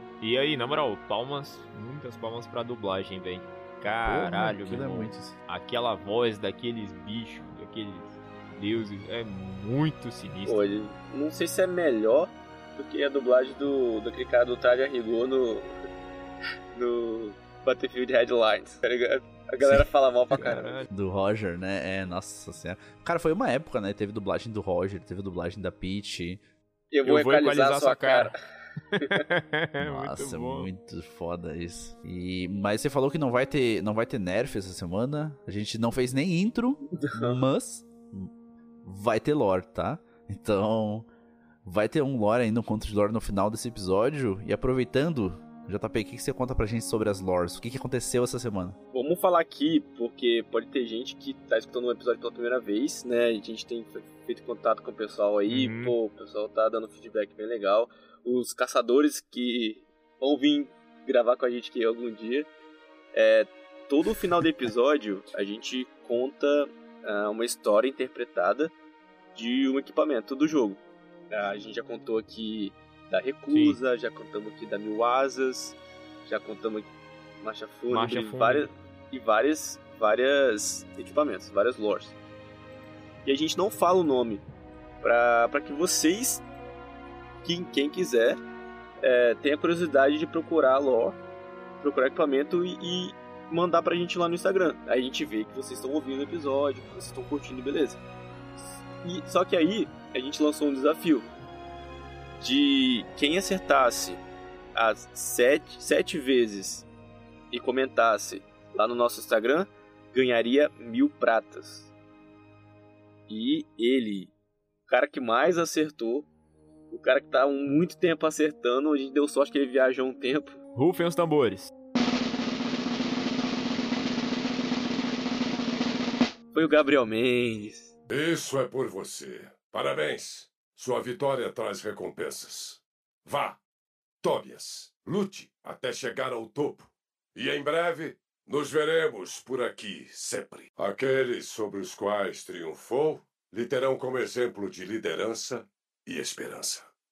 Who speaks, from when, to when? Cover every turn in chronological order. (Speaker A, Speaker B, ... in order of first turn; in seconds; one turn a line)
Speaker A: 0.2-10.6
Speaker B: 4.0-5.4
Speaker C: 10.5-15.7
Speaker C: 16.7-20.8
Speaker B: 19.6-19.9
Speaker A: 20.4-20.9
Speaker B: 20.9-26.4
Speaker C: 26.9-28.4
Speaker A: 27.1-28.4
Speaker A: 28.9-30.7
Speaker C: 29.0-29.2
Speaker B: 29.8-38.3
Speaker C: 36.9-37.5
Speaker B: 38.8-41.1
Speaker B: 41.6-48.8
Speaker C: 48.9-62.5
Speaker A: 55.5-56.0
Speaker C: 63.1-68.7
Speaker C: 69.3-70.8
Speaker C: 71.3-82.2
Speaker A: 73.5-73.8
Speaker A: 77.9-78.7
Speaker C: 83.2-84.4
Speaker C: 85.0-86.4
Speaker C: 87.4-88.4
Speaker C: 89.0-91.2
Speaker C: 91.8-98.0
Speaker C: 99.0-101.3
Speaker C: 102.4-104.2
Speaker C: 104.8-106.9
Speaker C: 107.5-111.9
Speaker C: 113.3-114.3
Speaker C: 114.9-116.3
Speaker C: 116.9-120.6
Speaker A: 120.8-121.7
Speaker C: 126.5-127.9
Speaker D: 128.1-133.6
Speaker D: 134.2-146.9